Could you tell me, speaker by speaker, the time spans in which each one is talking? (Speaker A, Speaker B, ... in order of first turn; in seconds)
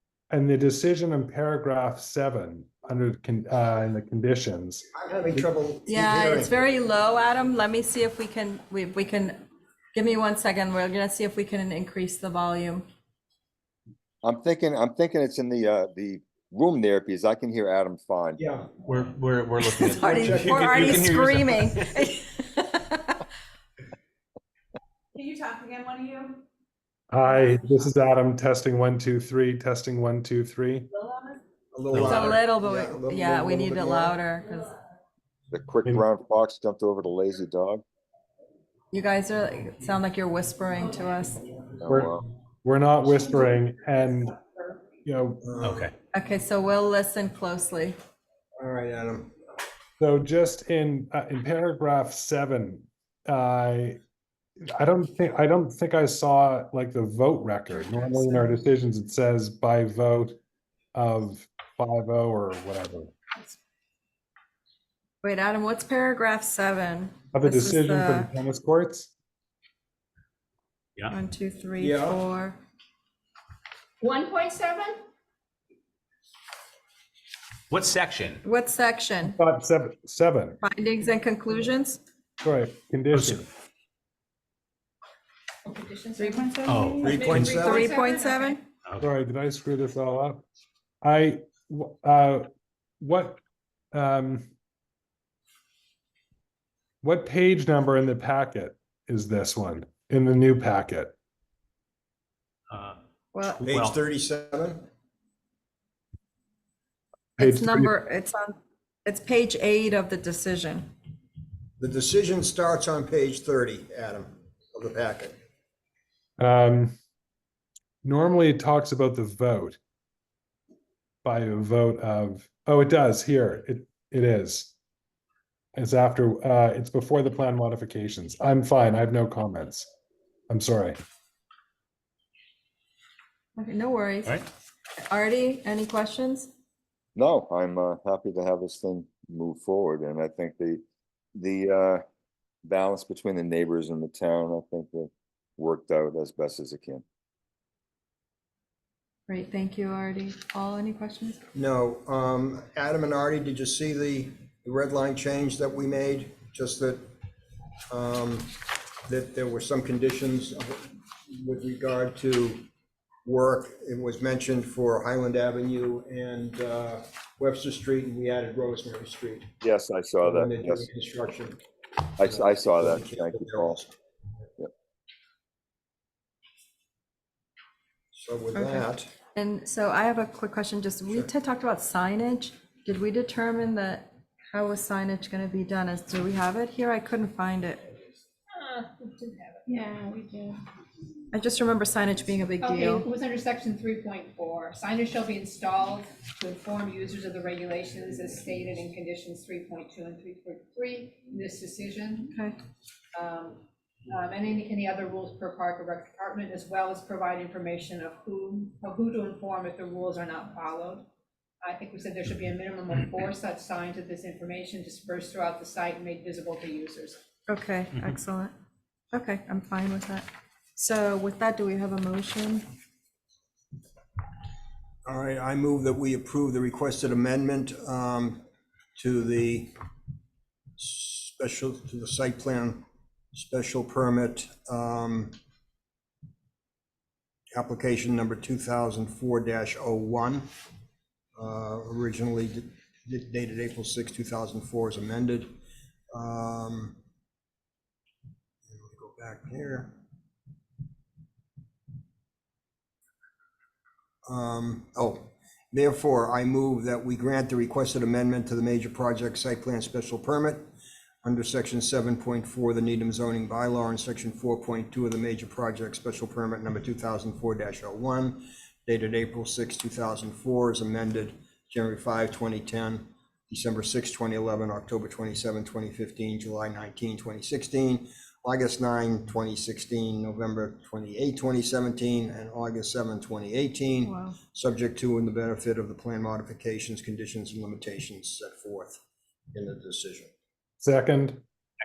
Speaker A: 0.3-4.8, 27.1-30.9, 41.9-44.4, 45.0-45.5, 50.0-54.0, 54.7-60.4, 60.9-63.2, 67.3-69.1, 79.2-80.6, 82.4-83.5, 89.0-90.4, 91.0-92.5, 93.0-93.4, 93.9-94.5, 97.0-101.1, 107.4-107.9, 116.4-116.9, 118.0-119.8, 121.2-124.7, 125.8-129.9, 130.5-131.0, 290.8-291.4
Speaker B: 4.9-6.5, 18.4-18.7, 20.2-21.1, 31.7-34.1, 45.4-45.9, 48.6-49.3, 71.8-72.2, 87.0-87.9, 103.6-104.8, 111.8-115.4, 151.5-157.1, 157.9-158.5, 159.1-162.7, 163.2-169.5, 170.2-171.6, 172.2-173.9, 178.1-179.1, 225.1-228.4, 229.0-229.7, 230.8-235.3, 237.5-240.5, 241.4-245.5, 246.1-247.0, 248.7-249.9, 254.2-260.7, 261.2-289.0, 289.5-290.3
Speaker C: 5.9-9.4, 9.9-12.8, 19.6-23.2, 32.0-34.7, 38.9-41.5, 46.1-48.0, 65.2-68.3, 71.1-72.6, 78.4-79.4, 80.6-82.0, 87.4-88.6, 103.3-103.6, 107.4-110.9, 133.6-134.4, 135.0-136.5, 149.3-151.4, 178.5-178.8, 179.3-187.8, 191.3-193.1, 202.3-202.6, 217.5-218.5, 219.1-222.6, 284.1-284.4
Speaker D: 14.2-18.4, 35.5-37.8, 41.8-42.2, 137.2-140.8, 141.3-142.0, 142.6-147.0, 169.6-170.9, 172.2-173.8
Speaker E: 18.8-22.0, 31.9-32.3, 45.6-45.9, 77.7-78.4, 83.1-83.4, 86.7-87.5, 102.7-103.0, 103.6-104.0
Speaker F: 25.1-26.3, 86.2-87.0, 189.9-190.2
Speaker G: 74.0-75.0, 85.6-88.6, 188.5-189.8, 192.6-202.3, 203.1-211.0, 211.6-217.2